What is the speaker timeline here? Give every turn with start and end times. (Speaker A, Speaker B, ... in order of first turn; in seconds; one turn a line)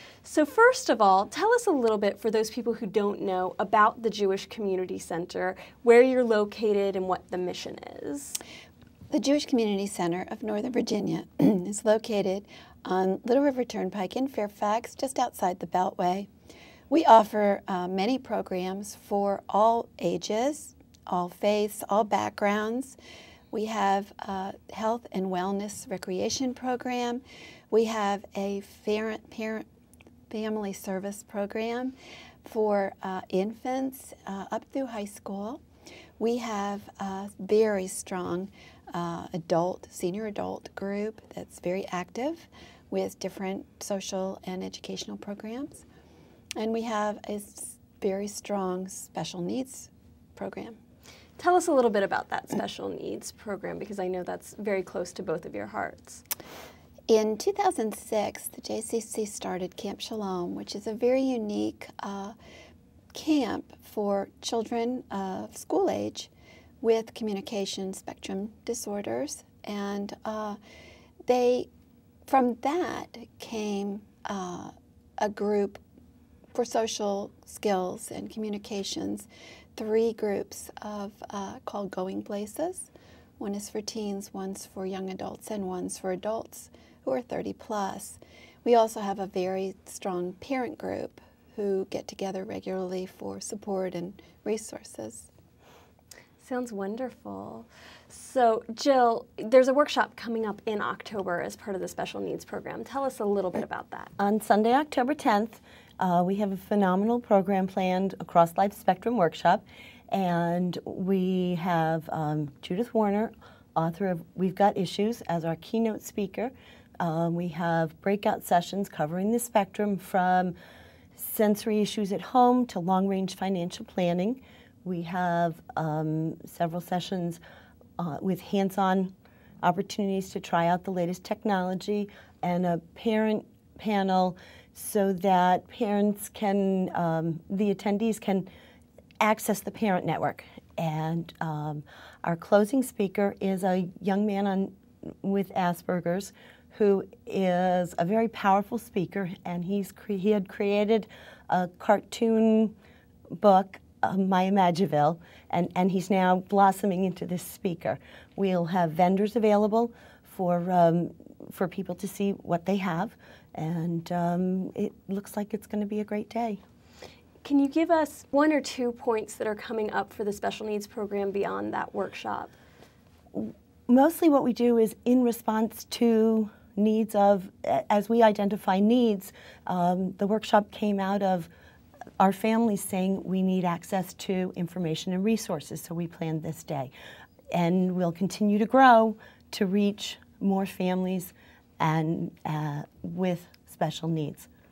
Speaker A: 0.2-8.4
Speaker B: 9.1-16.3
Speaker B: 16.9-23.0
Speaker B: 23.5-29.6
Speaker B: 30.3-35.6
Speaker B: 36.2-45.8
Speaker B: 46.6-50.8
Speaker A: 51.4-56.2
Speaker B: 57.1-62.4
Speaker B: 63.1-66.3
Speaker B: 66.8-70.6
Speaker B: 71.3-71.7
Speaker B: 72.3-75.8
Speaker B: 76.5-95.3
Speaker A: 96.4-104.1
Speaker C: 104.2-120.5
Speaker C: 121.1-127.4
Speaker C: 128.0-138.5
Speaker C: 139.2-152.7
Speaker C: 153.4-166.6
Speaker A: 167.4-172.5
Speaker C: 173.3-181.5
Speaker C: 182.2-186.9
Speaker C: 187.5-194.5